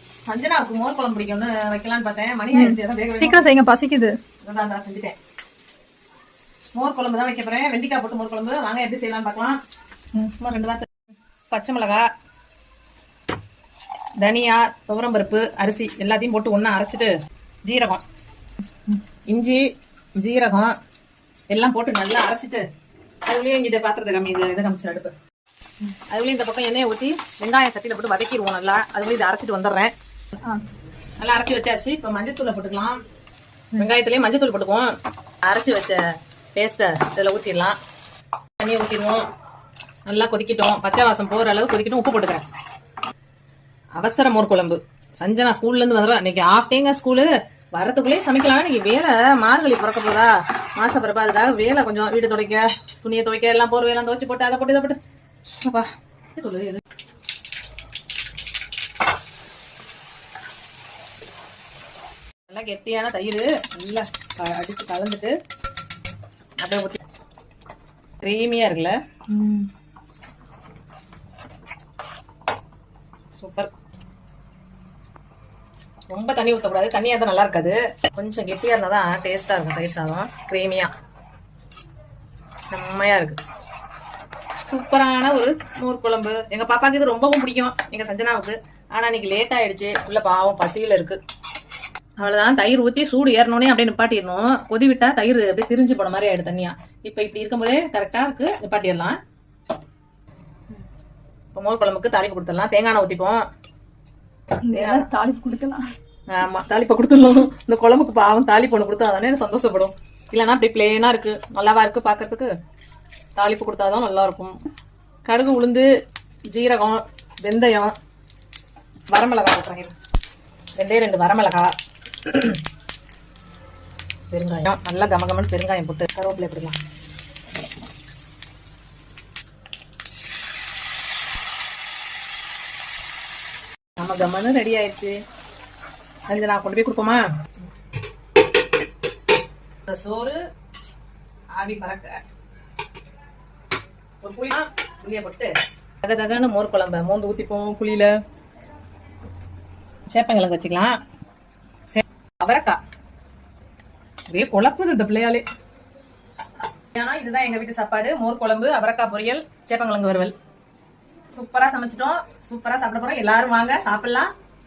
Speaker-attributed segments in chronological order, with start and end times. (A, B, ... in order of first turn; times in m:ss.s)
0:00.3-0:03.5 A
0:02.5-0:04.2 B
0:04.4-0:05.2 A
0:06.7-0:09.6 A
0:10.2-0:10.9 A
0:11.5-0:12.1 A
0:14.2-0:17.1 A
0:17.7-0:18.0 A
0:19.3-0:19.6 A
0:20.2-0:20.8 A
0:21.5-0:22.6 A
0:23.3-0:25.1 A
0:26.1-0:29.9 A
0:31.2-0:33.0 A
0:33.8-0:34.9 A
0:35.4-0:36.0 A
0:36.6-0:37.8 A
0:38.6-0:39.3 A
0:40.1-0:42.4 A
0:44.0-0:55.0 A
0:55.6-0:56.8 A
1:02.5-1:05.4 A
1:06.6-1:07.0 A
1:08.2-1:09.0 A
1:09.3-1:09.7 B
1:13.4-1:13.7 A
1:16.1-1:20.9 A
1:22.7-1:23.4 A
1:24.7-1:31.2 A
1:32.2-1:39.2 A
1:41.5-1:43.4 A
1:44.6-1:45.8 B
1:44.8-1:45.1 A
1:46.3-1:52.5 A
1:53.4-1:54.6 A
1:55.3-1:55.9 A
1:56.5-1:58.0 A
1:59.1-2:00.0 A
2:00.8-2:01.7 A
2:02.2-2:02.6 A
2:04.3-2:06.8 A
2:14.0-2:15.2 A
2:16.3-2:17.2 A
2:19.9-2:20.4 A
2:21.6-2:22.2 A
2:24.2-2:28.2 A
2:30.1-2:31.0 A
2:31.9-2:32.8 A
2:34.3-2:35.4 A
2:36.9-2:40.3 A
2:41.3-2:44.3 A